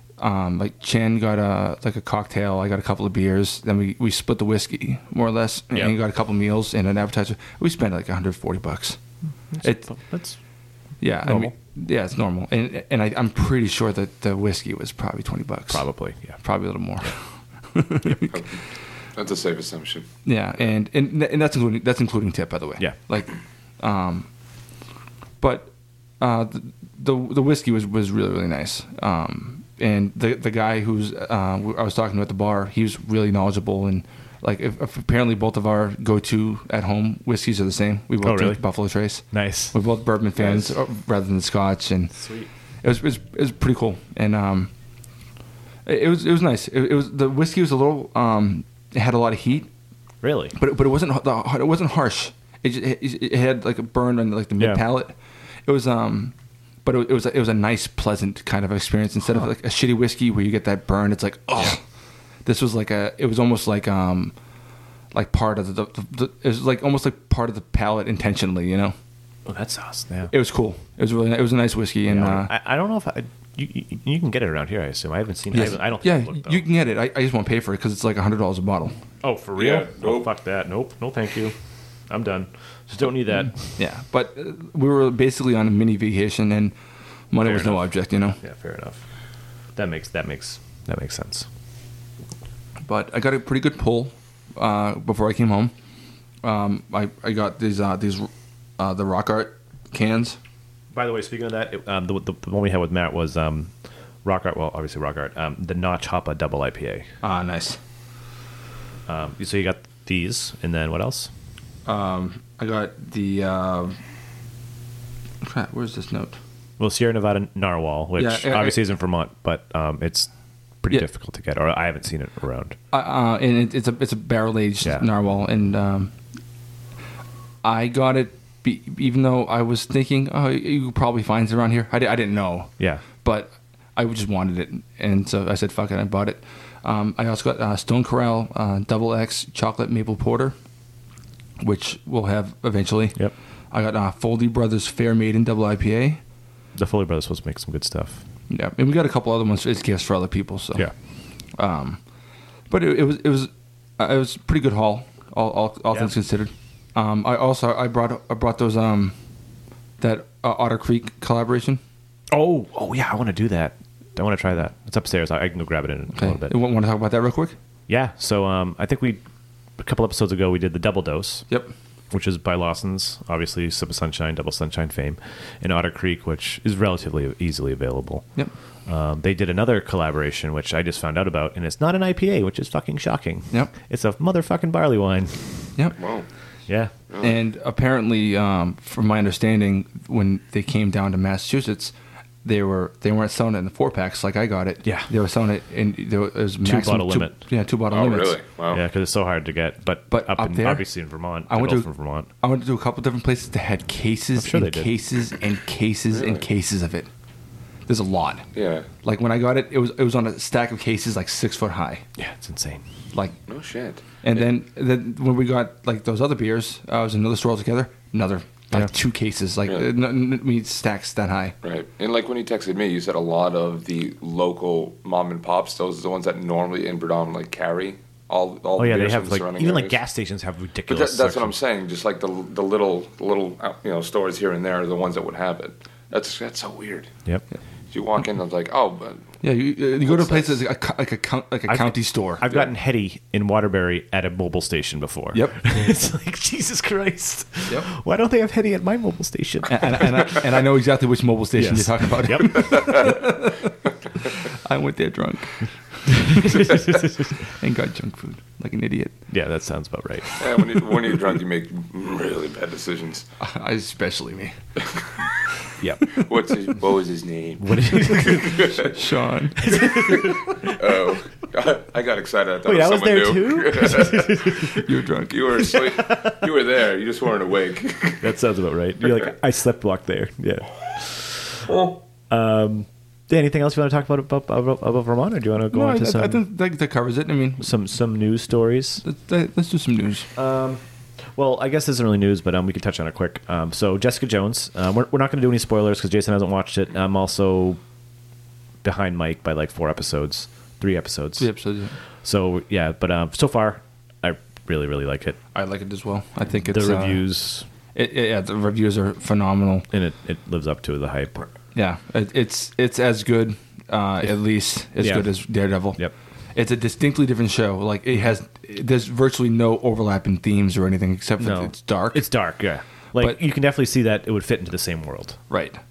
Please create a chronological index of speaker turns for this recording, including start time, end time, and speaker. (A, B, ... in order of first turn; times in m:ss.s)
0:00.2-0:09.0 A
0:09.5-0:10.4 B
0:09.6-0:09.9 A
0:11.0-0:15.8 A
0:11.2-0:11.5 B
0:15.7-0:16.4 B
0:16.4-0:17.2 A
0:17.7-0:18.4 A
0:18.3-0:18.6 C
0:19.2-0:20.1 C
0:20.2-0:24.3 A
0:25.4-0:42.1 A
0:38.2-0:38.6 B
0:39.3-0:39.7 B
0:40.4-0:40.7 C
0:42.1-0:42.5 B
0:42.8-0:44.7 A
0:45.8-0:49.7 A
0:50.2-0:50.6 B
0:50.5-1:01.8 A
0:54.6-0:54.8 B
1:02.4-1:04.3 A
1:05.1-1:08.9 A
1:09.4-1:10.3 B
1:10.3-1:12.5 A
1:12.1-1:16.6 B
1:15.5-1:18.9 A
1:19.2-1:21.5 B
1:19.6-1:20.3 C
1:22.1-1:23.6 B
1:23.8-1:26.8 A
1:27.3-1:28.4 A
1:27.4-1:27.9 B
1:28.4-1:29.0 B
1:29.8-1:31.5 B
1:32.8-1:35.7 A
1:36.4-1:40.4 A
1:40.9-1:43.7 B
1:44.2-1:47.1 B
1:47.2-1:47.8 A
1:49.1-1:51.3 B
1:51.8-1:54.0 A
1:55.4-1:56.4 A
1:56.8-2:00.3 B
1:58.2-1:58.8 A
2:00.8-2:02.8 B
2:02.9-2:06.1 A
2:04.8-2:05.1 B
2:07.6-2:20.5 A
2:12.8-2:13.0 B
2:21.6-2:23.2 A
2:23.7-2:26.2 A
2:26.8-2:28.2 B
2:28.5-2:30.9 A
2:31.6-2:32.0 A
2:32.7-2:39.1 A
2:40.0-2:41.8 A
2:42.3-2:46.5 B
2:46.1-2:47.5 A
2:47.9-2:49.2 B
2:49.8-2:51.4 B
2:52.1-2:58.2 B
2:58.9-3:05.5 B
3:06.0-3:06.2 C
3:06.7-3:06.9 B
3:07.2-3:18.4 A
3:14.8-3:15.1 B
3:16.6-3:17.4 B
3:17.9-3:18.8 C
3:18.7-3:22.3 B
3:20.1-3:20.9 A
3:21.5-3:21.9 A
3:22.4-3:27.1 A
3:24.4-3:24.9 B
3:26.1-3:26.4 C
3:27.9-3:28.4 A
3:28.5-3:28.9 C
3:29.0-3:32.0 A
3:32.2-3:32.8 B
3:33.5-3:34.0 C
3:34.2-3:41.5 A
3:41.6-3:50.0 C
3:48.8-3:51.6 B
3:50.9-3:57.1 C
3:57.9-3:59.3 C
3:59.4-4:02.4 A
4:00.0-4:00.6 C
4:01.7-4:10.4 B
4:09.7-4:13.7 A
4:11.6-4:13.2 B
4:14.3-4:19.2 A
4:16.1-4:17.4 B
4:19.3-4:20.4 B
4:20.4-4:23.2 C
4:23.4-4:24.5 A
4:25.8-4:26.1 B
4:26.1-4:28.9 C
4:27.6-4:28.8 B
4:28.8-4:29.8 A
4:29.6-4:30.9 B
4:29.7-4:34.8 C
4:32.6-4:34.9 B
4:34.8-4:35.6 A
4:35.3-4:38.2 C
4:35.6-4:36.4 B
4:38.2-4:41.6 B
4:41.7-4:42.0 C
4:42.3-4:46.4 B
4:45.7-4:47.7 A
4:47.6-4:49.0 B
4:49.0-4:50.3 A
4:50.3-4:50.8 B
4:51.4-4:57.8 B
4:58.8-5:01.5 B
5:01.4-5:01.9 A
5:02.2-5:05.4 B
5:05.5-5:07.2 A
5:06.7-5:07.7 B
5:07.9-5:09.9 A
5:09.9-5:11.5 B
5:11.7-5:16.0 A
5:15.0-5:15.4 B
5:16.5-5:22.3 A
5:21.4-5:25.4 B
5:25.5-5:25.8 A